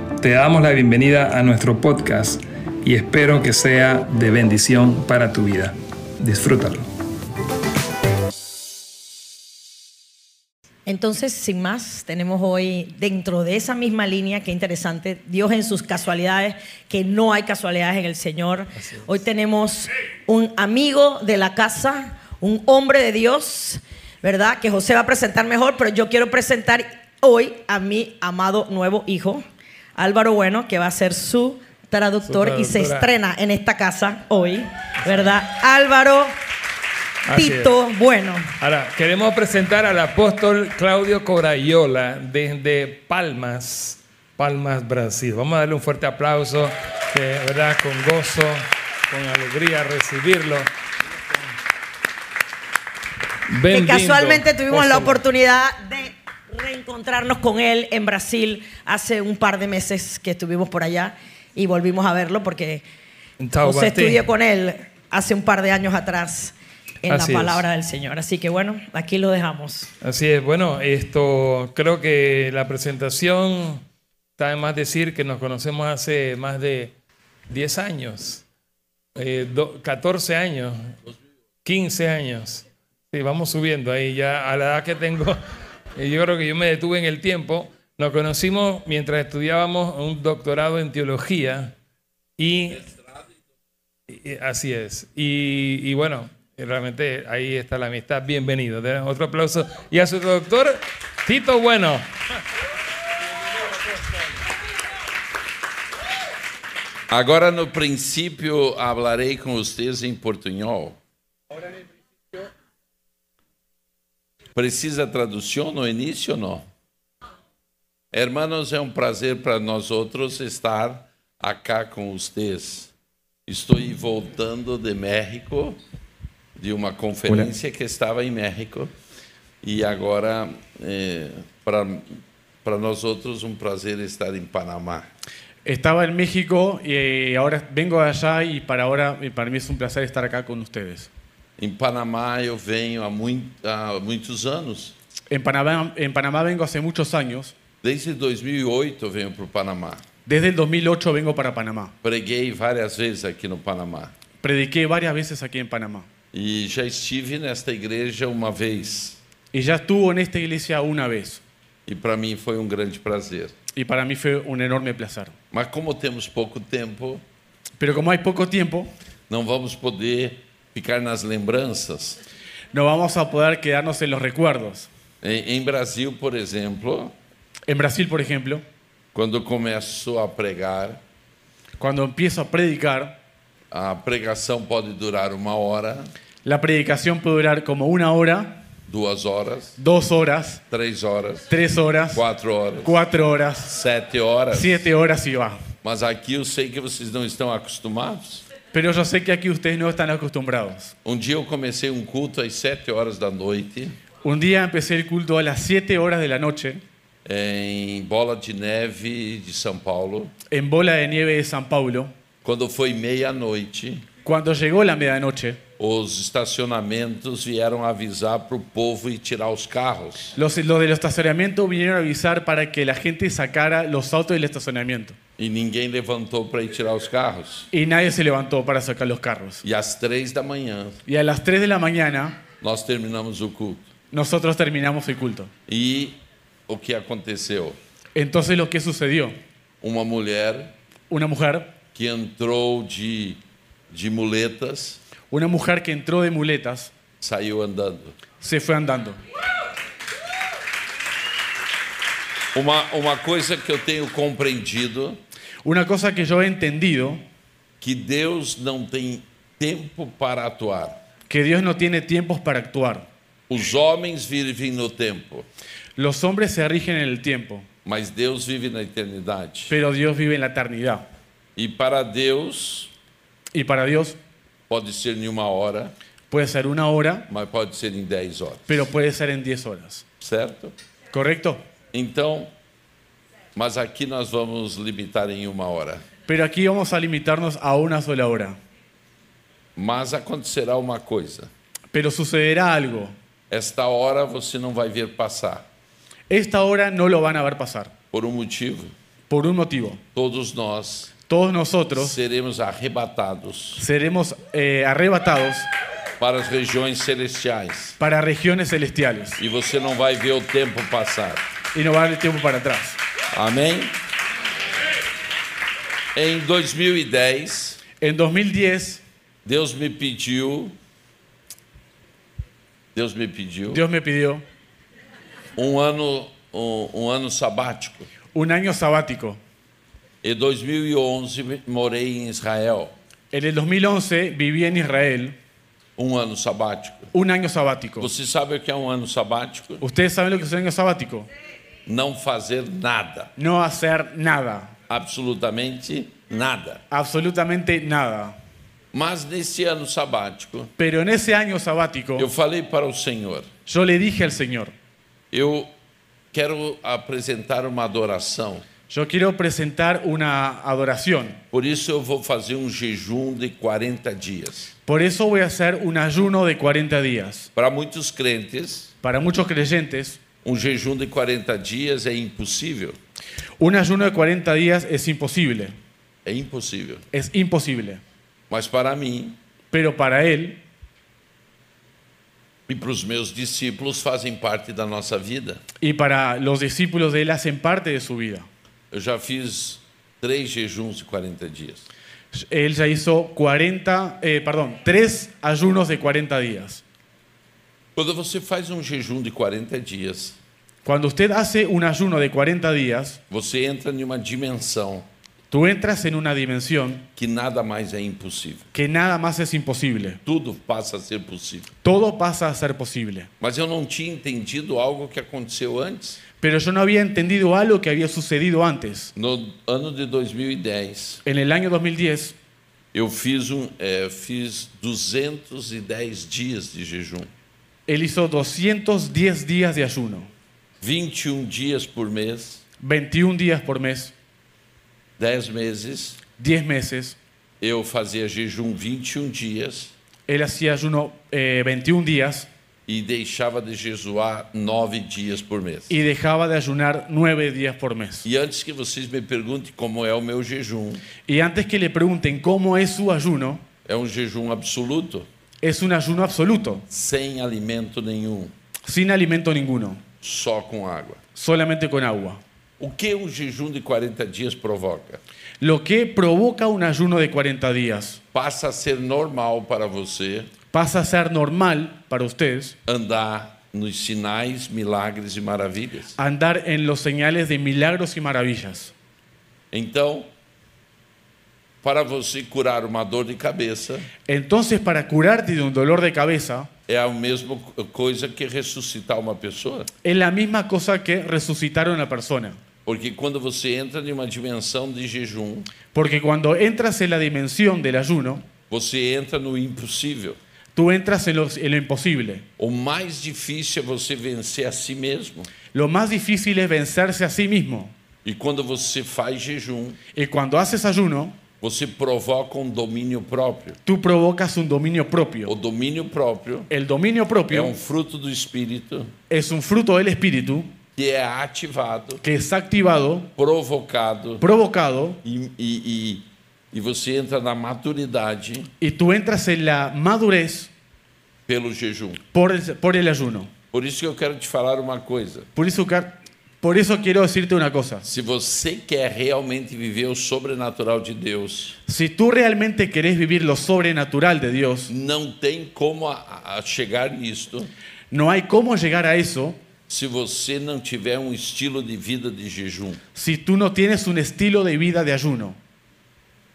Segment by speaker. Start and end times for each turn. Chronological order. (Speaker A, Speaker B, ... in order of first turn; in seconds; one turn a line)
Speaker A: 0.2-6.9
Speaker B: 10.8-29.4
Speaker B: 29.9-36.3
Speaker A: 32.2-33.1
Speaker A: 37.2-37.7
Speaker B: 37.3-38.5
Speaker A: 38.6-50.7
Speaker A: 53.5-55.2
Speaker B: 53.7-62.8
Speaker A: 63.4-64.2
Speaker B: 63.6-69.9
Speaker A: 67.1-67.7
Speaker A: 70.0-73.8
Speaker A: 74.4-76.9
Speaker A: 77.5-78.4
Speaker A: 79.2-81.0
Speaker A: 81.7-85.4
Speaker A: 86.0-91.7
Speaker A: 92.4-92.9
Speaker A: 94.1-102.1
Speaker C: 107.1-111.0
Speaker C: 114.5-116.7
Speaker C: 118.1-122.9
Speaker C: 123.5-125.8
Speaker C: 126.6-128.9
Speaker C: 129.6-135.1
Speaker D: 135.7-141.1
Speaker C: 141.6-144.9
Speaker D: 145.3-147.6
Speaker C: 147.8-150.0
Speaker D: 150.2-151.9
Speaker C: 152.0-154.1
Speaker D: 154.4-156.1
Speaker C: 156.3-159.2
Speaker D: 159.5-161.4
Speaker C: 161.9-163.6
Speaker D: 163.7-165.3
Speaker C: 165.5-167.2
Speaker D: 167.8-168.9
Speaker C: 169.3-172.2
Speaker D: 172.7-174.9
Speaker C: 175.2-177.1
Speaker D: 177.7-178.6
Speaker C: 179.1-181.0
Speaker D: 181.8-183.2
Speaker C: 183.7-186.1
Speaker D: 186.4-188.6
Speaker C: 188.9-189.8
Speaker D: 189.8-190.6
Speaker C: 190.7-191.5
Speaker D: 191.5-192.2
Speaker C: 192.1-192.9
Speaker D: 192.8-193.8
Speaker C: 193.7-194.9
Speaker D: 194.5-195.6
Speaker C: 195.8-198.4
Speaker D: 198.7-200.9
Speaker C: 201.1-204.0
Speaker D: 204.2-206.8
Speaker C: 207.2-210.3
Speaker D: 210.5-212.1
Speaker C: 212.4-214.1
Speaker D: 214.2-215.6
Speaker C: 215.8-220.4
Speaker D: 220.4-225.2
Speaker C: 225.4-227.7
Speaker D: 227.7-229.6
Speaker C: 229.6-231.0
Speaker D: 231.1-232.4
Speaker C: 232.6-233.9
Speaker D: 234.1-235.5
Speaker C: 235.7-236.2
Speaker C: 236.7-237.8
Speaker D: 238.2-239.4
Speaker C: 239.8-240.7
Speaker D: 241.1-241.8
Speaker C: 241.9-243.4
Speaker C: 243.9-245.0
Speaker D: 245.3-246.9
Speaker C: 247.2-248.2
Speaker D: 248.4-249.2
Speaker C: 252.5-255.2
Speaker D: 255.6-257.2
Speaker C: 257.8-261.0
Speaker D: 261.3-263.1
Speaker C: 263.5-265.4
Speaker D: 266.0-267.7
Speaker C: 267.9-269.8
Speaker D: 269.7-271.1
Speaker C: 271.6-272.9
Speaker D: 273.5-274.2
Speaker C: 274.7-275.9
Speaker D: 276.3-277.3
Speaker C: 277.3-278.8
Speaker D: 278.7-280.1
Speaker C: 280.2-280.7
Speaker D: 281.1-281.6
Speaker C: 281.9-282.5
Speaker C: 283.6-286.0
Speaker D: 286.3-288.6
Speaker C: 289.8-291.5
Speaker D: 291.9-293.1
Speaker C: 293.5-295.7
Speaker D: 296.3-297.9
Speaker C: 298.1-298.9
Speaker D: 299.3-300.0
Speaker C: 300.1-301.1
Speaker D: 301.3-302.2
Speaker C: 301.9-303.9
Speaker D: 303.8-305.7
Speaker C: 306.2-308.0
Speaker D: 308.0-309.4
Speaker C: 309.4-311.4
Speaker D: 311.7-313.0
Speaker C: 313.3-313.9
Speaker C: 316.1-317.8
Speaker D: 318.0-319.0
Speaker C: 319.4-320.8
Speaker C: 322.9-323.8
Speaker D: 323.7-324.4
Speaker C: 325.6-328.1
Speaker D: 328.3-329.4
Speaker C: 330.2-332.9
Speaker D: 333.3-335.4
Speaker C: 336.0-337.1
Speaker D: 337.1-338.1
Speaker C: 338.0-339.8
Speaker D: 339.8-341.3
Speaker C: 341.9-343.3
Speaker D: 343.4-344.8
Speaker C: 344.9-346.8
Speaker D: 346.9-348.4
Speaker C: 348.9-350.7
Speaker D: 350.8-352.3
Speaker C: 352.2-353.5
Speaker D: 353.7-354.7
Speaker C: 355.3-355.7
Speaker C: 356.3-358.7
Speaker D: 358.9-361.4
Speaker C: 361.5-364.7
Speaker D: 364.9-367.5
Speaker C: 367.6-368.9
Speaker D: 369.0-370.2
Speaker C: 370.4-373.0
Speaker D: 373.6-375.8
Speaker C: 376.2-377.1
Speaker D: 377.1-378.0
Speaker C: 378.5-379.4
Speaker D: 379.7-380.6
Speaker C: 382.7-385.6
Speaker D: 385.8-388.5
Speaker C: 388.9-391.9
Speaker D: 392.3-396.8
Speaker C: 397.9-400.4
Speaker D: 400.9-403.2
Speaker C: 403.3-405.1
Speaker D: 405.5-407.1
Speaker C: 407.2-408.7
Speaker D: 408.7-410.2
Speaker C: 410.2-411.7
Speaker D: 411.8-413.3
Speaker C: 413.4-416.2
Speaker D: 416.4-419.1
Speaker C: 419.2-421.2
Speaker D: 421.2-422.4
Speaker C: 422.9-427.3
Speaker D: 427.9-430.3
Speaker C: 430.8-432.6
Speaker D: 432.8-434.1
Speaker C: 435.2-436.2
Speaker D: 436.4-437.2
Speaker C: 437.6-439.9
Speaker D: 440.3-442.5
Speaker C: 442.9-445.9
Speaker D: 445.9-448.3
Speaker C: 448.2-451.1
Speaker D: 451.2-453.6
Speaker C: 453.9-455.3
Speaker D: 455.6-456.9
Speaker C: 456.9-458.5
Speaker D: 458.9-460.0
Speaker C: 460.2-461.2
Speaker D: 461.4-462.4
Speaker C: 462.8-465.2
Speaker D: 465.6-468.2
Speaker C: 468.3-470.5
Speaker D: 470.7-472.8
Speaker C: 472.9-476.2
Speaker D: 476.2-478.9
Speaker C: 479.7-480.3
Speaker C: 481.8-484.1
Speaker D: 484.3-486.7
Speaker C: 486.9-489.9
Speaker D: 490.0-492.6
Speaker C: 492.9-495.7
Speaker D: 495.9-498.4
Speaker C: 498.7-500.4
Speaker D: 500.8-502.5
Speaker C: 502.6-505.5
Speaker D: 505.7-507.9
Speaker C: 508.2-510.0
Speaker D: 510.1-511.4
Speaker C: 511.6-513.8
Speaker D: 513.9-515.5
Speaker C: 515.5-516.7
Speaker D: 516.7-517.7
Speaker C: 517.5-519.1
Speaker D: 519.3-520.7
Speaker C: 521.0-522.2
Speaker D: 522.2-523.3
Speaker C: 523.4-524.4
Speaker D: 524.4-525.2
Speaker C: 525.2-528.7
Speaker D: 528.8-530.7
Speaker C: 531.5-532.2
Speaker D: 532.3-533.5
Speaker C: 533.7-535.5
Speaker D: 535.5-538.1
Speaker C: 538.0-541.8
Speaker D: 541.9-544.9
Speaker C: 544.9-547.7
Speaker D: 548.1-549.6
Speaker C: 549.9-553.0
Speaker D: 553.1-555.6